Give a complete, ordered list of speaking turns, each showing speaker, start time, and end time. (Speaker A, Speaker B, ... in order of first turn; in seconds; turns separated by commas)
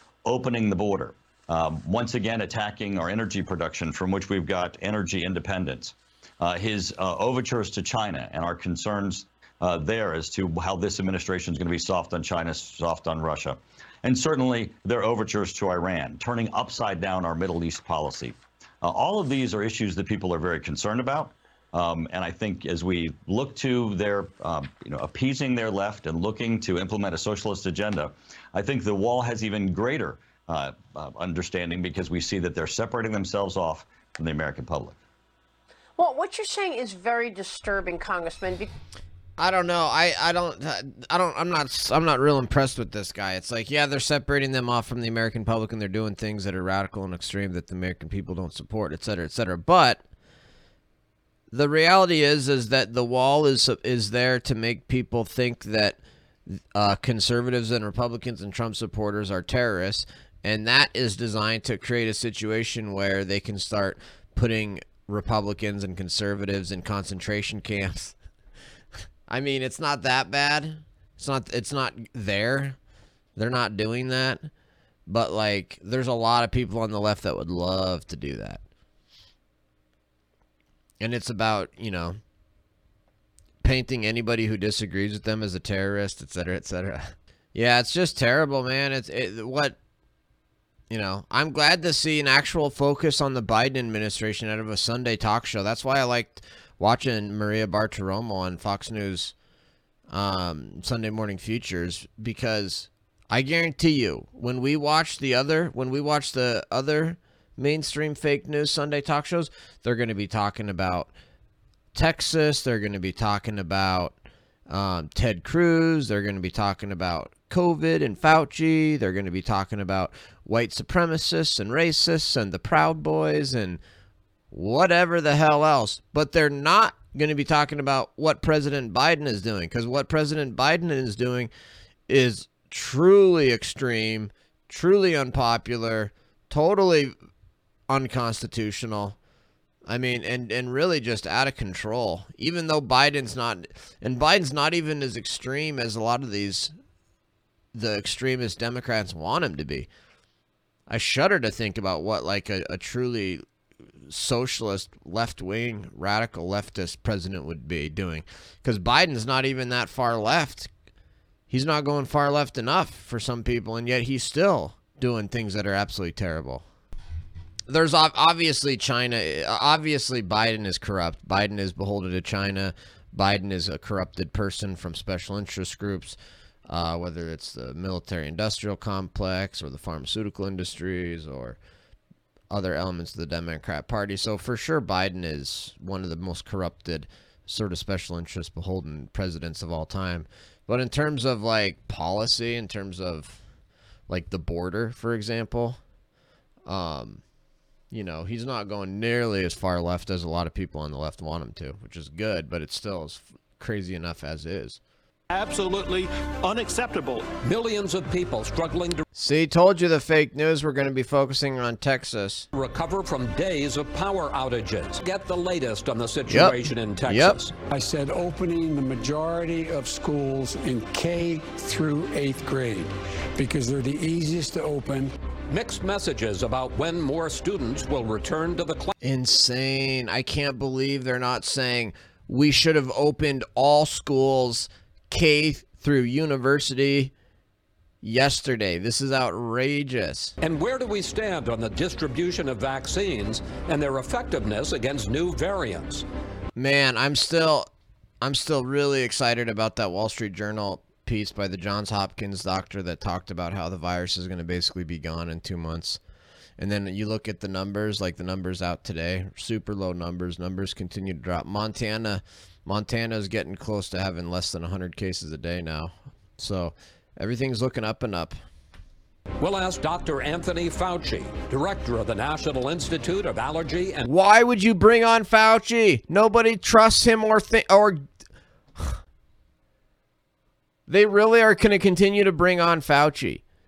Speaker A: 0.2-35.0, Speaker B: 36.0-38.7, Speaker C: 39.4-50.0, Speaker C: 51.5-68.2, Speaker C: 69.3-72.8, Speaker C: 73.4-74.5, Speaker C: 75.1-78.6, Speaker C: 81.0-82.2, Speaker C: 83.6-89.8, Speaker C: 90.9-99.3, Speaker C: 100.1-111.1, Speaker C: 111.9-114.2, Speaker C: 114.7-123.8, Speaker C: 124.5-131.5, Speaker C: 132.1-137.2, Speaker C: 137.9-139.2, Speaker C: 139.9-146.7, Speaker C: 147.7-149.9, Speaker C: 150.9-153.4, Speaker C: 154.1-160.7, Speaker C: 161.5-166.6, Speaker C: 167.7-181.6, Speaker C: 182.5-193.4, Speaker C: 194.1-195.8, Speaker C: 196.7-197.2, Speaker C: 197.9-204.8, Speaker D: 205.3-207.3, Speaker E: 207.4-209.1, Speaker C: 209.2-212.5, Speaker E: 212.5-217.5, Speaker C: 216.3-217.4, Speaker F: 217.7-225.1, Speaker E: 225.5-228.9, Speaker C: 229.0-237.1, Speaker C: 238.0-240.3, Speaker E: 240.4-246.1, Speaker C: 246.6-247.7, Speaker C: 248.2-256.0, Speaker C: 256.6-268.4, Speaker E: 269.4-274.1, Speaker C: 274.1-278.1, Speaker C: 280.9-283.4